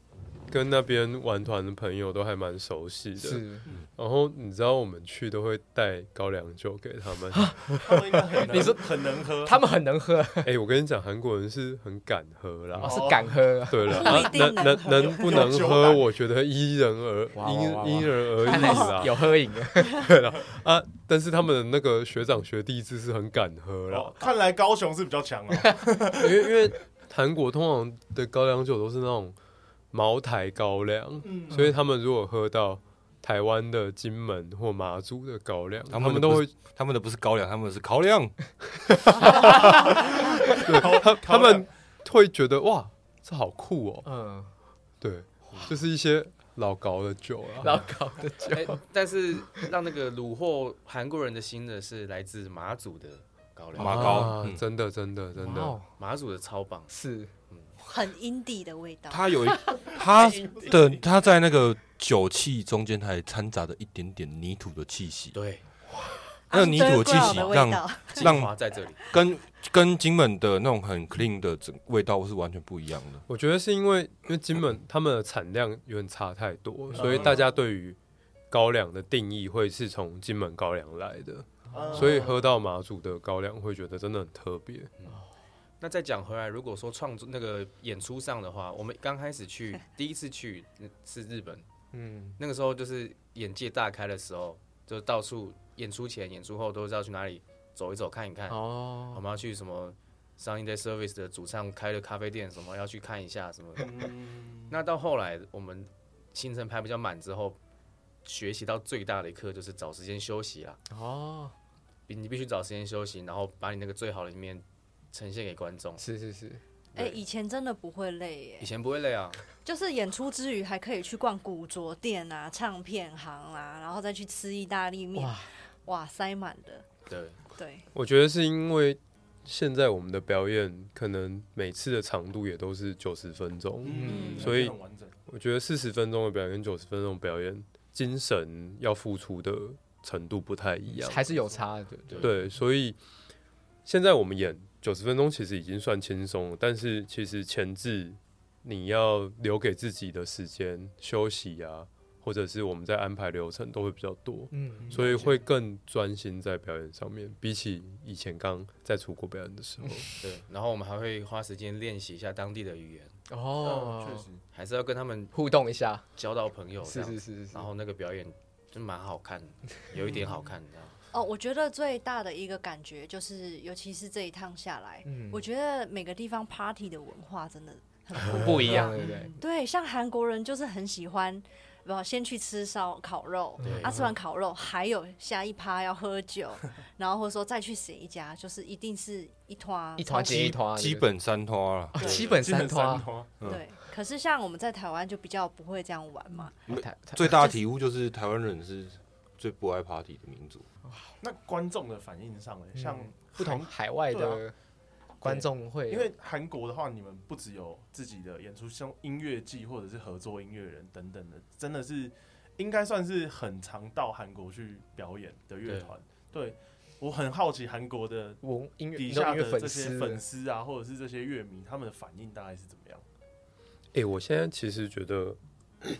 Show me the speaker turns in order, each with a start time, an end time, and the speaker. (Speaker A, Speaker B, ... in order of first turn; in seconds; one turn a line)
Speaker A: 0.5-3.4
Speaker B: 3.2-3.7
Speaker A: 3.9-7.6
Speaker B: 7.3-10.5
Speaker C: 7.8-9.6
Speaker A: 10.4-13.1
Speaker B: 12.8-14.3
Speaker C: 12.8-13.5
Speaker A: 13.7-19.3
Speaker D: 13.9-15.5
Speaker C: 14.0-14.3
Speaker C: 14.8-16.1
Speaker B: 17.3-20.0
Speaker D: 18.5-18.8
Speaker A: 19.9-24.2
Speaker C: 23.9-26.5
Speaker A: 26.2-29.4
Speaker A: 29.9-36.5
Speaker C: 31.2-31.8
Speaker E: 35.9-38.5
Speaker A: 39.1-39.9
Speaker C: 39.6-41.7
Speaker A: 40.6-44.0
Speaker B: 44.0-44.5
Speaker A: 45.0-47.9
Speaker B: 47.6-48.8
Speaker F: 48.5-54.3
Speaker E: 53.8-54.6
Speaker A: 53.8-55.8
Speaker B: 55.4-55.9
Speaker F: 56.0-56.9
Speaker B: 56.9-57.3
Speaker D: 57.9-59.3
Speaker E: 59.1-65.4
Speaker C: 60.3-61.0
Speaker F: 65.3-65.6
Speaker D: 66.5-68.3
Speaker E: 66.5-73.2
Speaker F: 67.2-67.5
Speaker F: 68.1-69.0
Speaker A: 73.3-78.0
Speaker C: 76.9-77.5
Speaker A: 78.5-84.9
Speaker C: 81.7-82.4
Speaker B: 81.8-82.3
Speaker F: 85.8-91.7
Speaker B: 91.9-92.4
Speaker F: 92.4-103.9
Speaker B: 98.5-99.2
Speaker C: 103.8-104.8
Speaker F: 104.7-107.6
Speaker F: 108.2-110.8
Speaker B: 110.9-111.5
Speaker F: 112.1-116.0
Speaker B: 116.0-116.6
Speaker D: 116.9-118.7
Speaker F: 118.6-119.4
Speaker D: 119.6-126.8
Speaker B: 125.2-125.5
Speaker F: 127.1-127.4
Speaker D: 127.5-127.9
Speaker A: 127.9-134.7
Speaker C: 133.8-135.2
Speaker B: 133.9-134.5
Speaker D: 134.1-134.5
Speaker A: 135.3-141.2
Speaker B: 140.9-142.3
Speaker C: 141.3-141.6
Speaker A: 142.2-143.0
Speaker A: 143.8-160.1
Speaker B: 154.5-155.3
Speaker C: 154.9-155.4
Speaker F: 160.2-163.2
Speaker B: 163.3-164.3
Speaker C: 163.6-164.4
Speaker F: 164.5-165.3
Speaker B: 165.3-166.1
Speaker F: 166.2-171.0
Speaker B: 166.8-167.7
Speaker D: 171.1-190.4
Speaker B: 175.0-175.4
Speaker B: 178.2-179.3
Speaker C: 178.9-179.3
Speaker B: 183.6-184.1
Speaker F: 183.6-183.9
Speaker B: 190.0-191.1
Speaker E: 190.3-192.0
Speaker B: 191.9-193.1
Speaker F: 192.0-192.3
Speaker C: 192.0-193.3
Speaker D: 193.4-196.5
Speaker B: 196.4-197.5
Speaker E: 196.7-200.7
Speaker B: 200.8-201.1
Speaker C: 201.2-204.4
Speaker B: 202.7-204.5
Speaker B: 205.2-206.1
Speaker C: 205.2-218.4
Speaker F: 215.6-215.9
Speaker B: 218.4-220.2
Speaker C: 218.9-223.0
Speaker A: 223.9-225.4